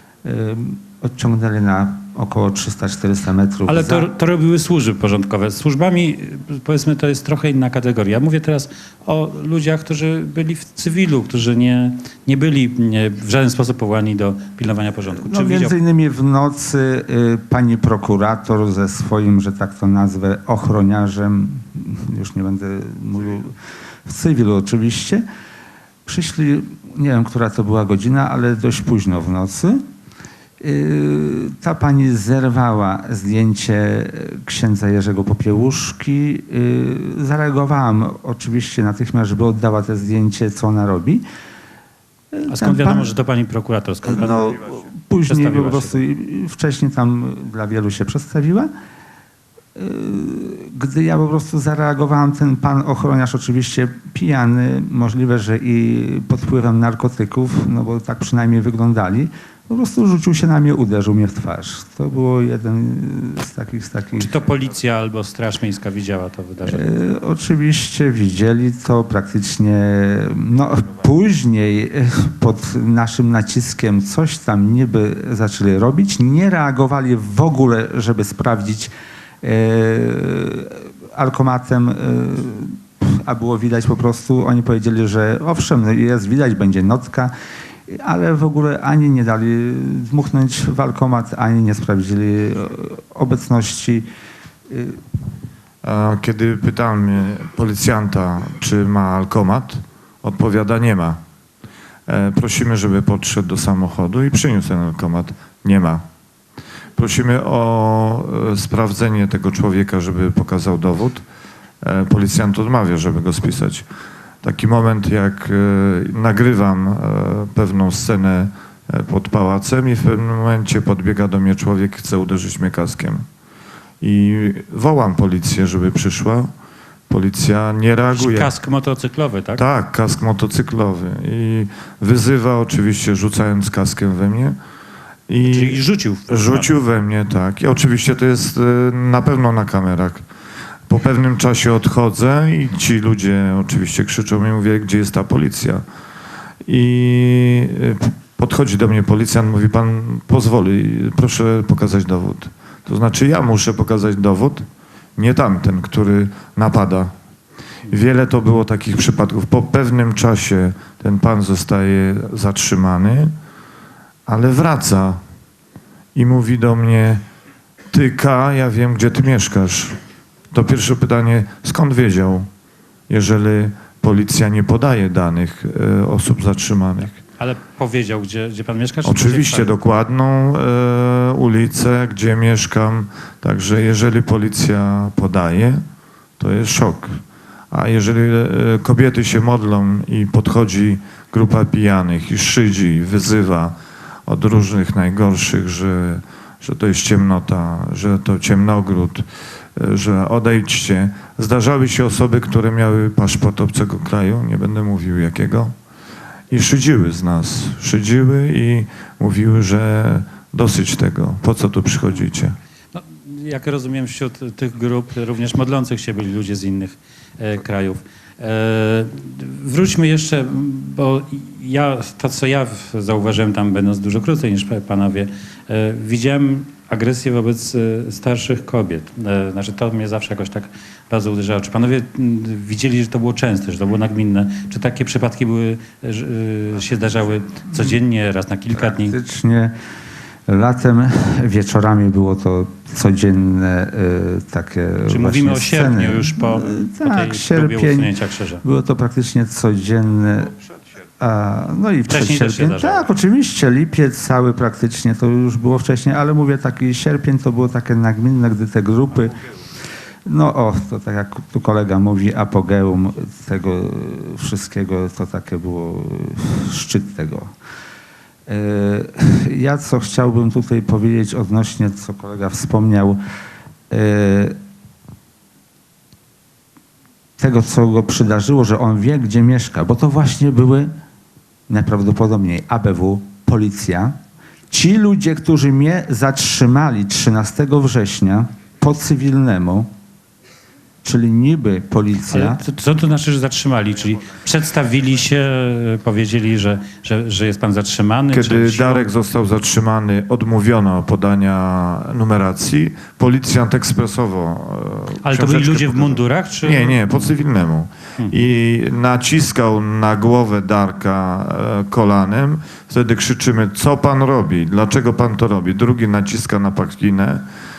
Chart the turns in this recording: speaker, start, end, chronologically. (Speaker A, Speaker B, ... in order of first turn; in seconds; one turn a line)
Speaker A: 0.2-4.1
Speaker B: 3.7-15.8
Speaker A: 15.2-23.5
Speaker A: 24.1-25.2
Speaker A: 26.1-29.8
Speaker A: 30.6-41.2
Speaker A: 42.3-43.1
Speaker B: 42.5-46.0
Speaker A: 44.1-48.7
Speaker A: 49.8-64.4
Speaker B: 64.2-66.9
Speaker A: 66.6-87.3
Speaker A: 87.9-94.1
Speaker A: 94.7-95.0
Speaker C: 95.8-101.2
Speaker C: 102.1-106.0
Speaker C: 107.0-111.2
Speaker C: 111.8-113.8
Speaker C: 114.4-123.2
Speaker C: 124.0-126.5
Speaker C: 127.1-128.5
Speaker B: 128.1-129.6
Speaker C: 129.6-134.6
Speaker C: 135.3-140.2
Speaker B: 135.5-136.7
Speaker C: 140.9-145.8
Speaker C: 146.7-154.6
Speaker C: 155.2-157.1
Speaker C: 157.9-163.3
Speaker C: 164.3-165.2
Speaker C: 166.2-167.2
Speaker C: 167.9-170.0
Speaker C: 170.5-172.5
Speaker C: 173.1-177.2
Speaker B: 177.4-179.8
Speaker C: 179.1-185.8
Speaker C: 186.4-187.2
Speaker C: 187.7-193.8
Speaker C: 194.3-205.7
Speaker C: 206.5-212.6
Speaker B: 212.9-239.2
Speaker A: 238.8-239.7
Speaker A: 240.5-250.5
Speaker B: 245.1-248.6
Speaker A: 251.2-259.4
Speaker B: 252.1-253.1
Speaker A: 260.3-267.5
Speaker A: 268.5-273.2
Speaker A: 273.9-274.6
Speaker A: 277.4-280.9
Speaker A: 281.7-284.1
Speaker A: 284.7-289.9
Speaker A: 291.0-292.6
Speaker B: 292.3-299.1
Speaker C: 298.3-317.4
Speaker B: 305.2-307.3